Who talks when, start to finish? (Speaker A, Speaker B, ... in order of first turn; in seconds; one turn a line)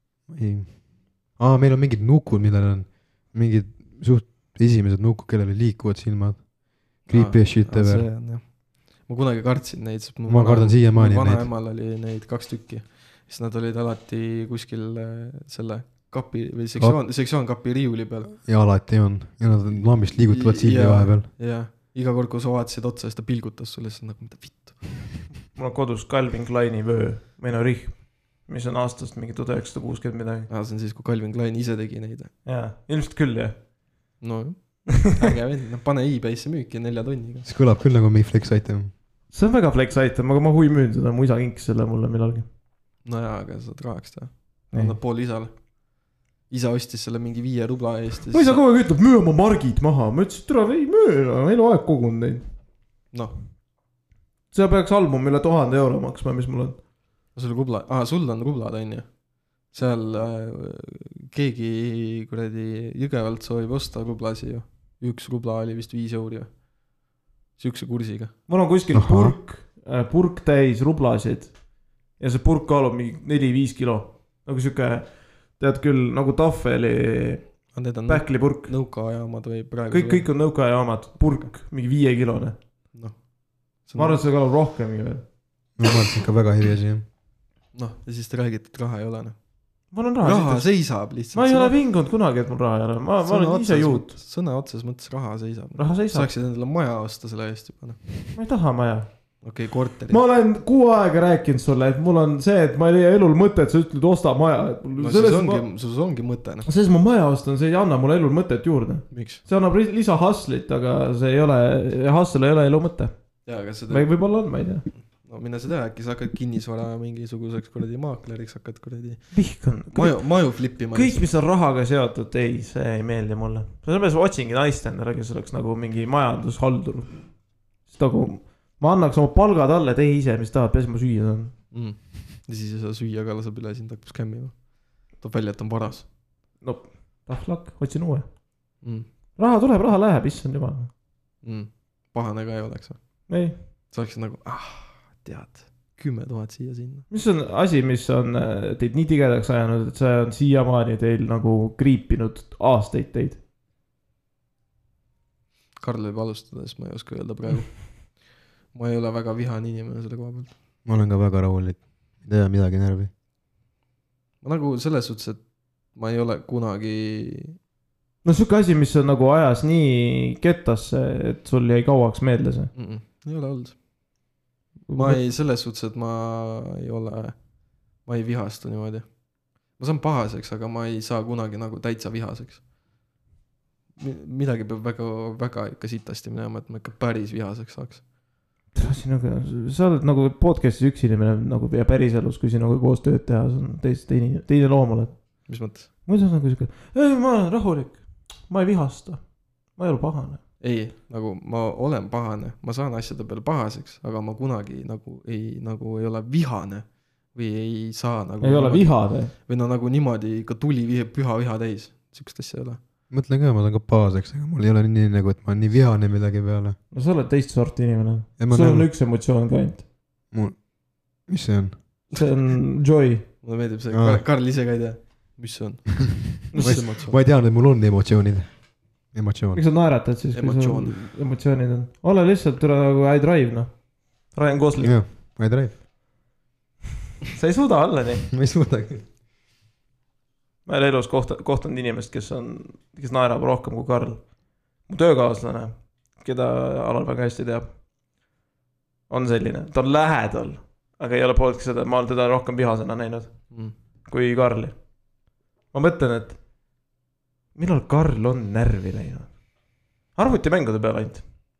Speaker A: 0.3-8.1
Speaker B: 7.0-18.3
Speaker A: 10.3-11.5
Speaker A: 18.3-21.3
Speaker B: 20.2-24.9
Speaker C: 25.5-30.5
Speaker B: 30.5-32.3
Speaker C: 32.4-33.6
Speaker B: 34.2-37.5
Speaker A: 37.4-38.9
Speaker C: 39.3-42.5
Speaker B: 43.0-45.5
Speaker C: 44.7-45.0
Speaker B: 46.5-48.6
Speaker C: 48.3-52.4
Speaker C: 54.5-56.8
Speaker B: 57.3-59.1
Speaker B: 59.6-66.5
Speaker B: 67.6-68.3
Speaker C: 68.5-71.5
Speaker A: 68.9-69.3
Speaker C: 72.2-78.7
Speaker B: 77.7-80.3
Speaker C: 79.9-82.5
Speaker B: 82.9-83.2
Speaker B: 83.8-84.2
Speaker C: 84.0-85.2
Speaker A: 85.8-87.0
Speaker B: 87.7-89.4
Speaker C: 89.9-94.1
Speaker B: 90.2-91.7
Speaker B: 93.2-98.0
Speaker C: 95.8-96.3
Speaker C: 98.3-99.1
Speaker B: 99.4-100.2
Speaker C: 100.1-105.6
Speaker B: 105.0-106.7
Speaker C: 106.7-113.1
Speaker B: 109.1-109.4
Speaker B: 113.5-114.1
Speaker C: 113.9-114.9
Speaker B: 115.0-119.4
Speaker C: 119.3-127.2
Speaker B: 119.9-121.2
Speaker C: 127.8-131.5
Speaker B: 131.7-136.1
Speaker C: 136.6-138.2
Speaker B: 138.8-139.1
Speaker C: 139.3-140.9
Speaker B: 141.4-143.3
Speaker C: 143.3-143.6
Speaker B: 143.9-147.1
Speaker C: 147.1-153.4
Speaker B: 155.8-158.2
Speaker B: 158.7-160.5
Speaker A: 160.8-163.1
Speaker B: 164.4-167.6
Speaker C: 168.2-172.7
Speaker B: 172.7-173.8
Speaker C: 174.9-175.2
Speaker B: 174.9-177.4
Speaker B: 178.0-179.1
Speaker B: 179.7-182.6
Speaker B: 184.0-188.0
Speaker C: 188.7-200.4
Speaker B: 195.5-195.9
Speaker B: 200.6-212.8
Speaker C: 208.4-209.3
Speaker A: 213.1-216.8
Speaker C: 216.9-219.8
Speaker A: 218.4-218.9
Speaker A: 220.3-220.7
Speaker A: 221.2-221.8
Speaker C: 222.1-223.3
Speaker B: 223.4-227.2
Speaker A: 223.9-224.2
Speaker A: 226.5-229.6
Speaker C: 226.5-226.8
Speaker C: 229.5-235.0
Speaker B: 230.3-231.0
Speaker A: 234.8-235.8
Speaker C: 237.2-238.2
Speaker A: 238.3-239.1
Speaker C: 240.7-244.2
Speaker C: 244.9-247.7
Speaker C: 249.1-253.4
Speaker C: 254.1-254.8
Speaker C: 255.7-256.4
Speaker C: 257.5-259.3
Speaker C: 260.1-261.2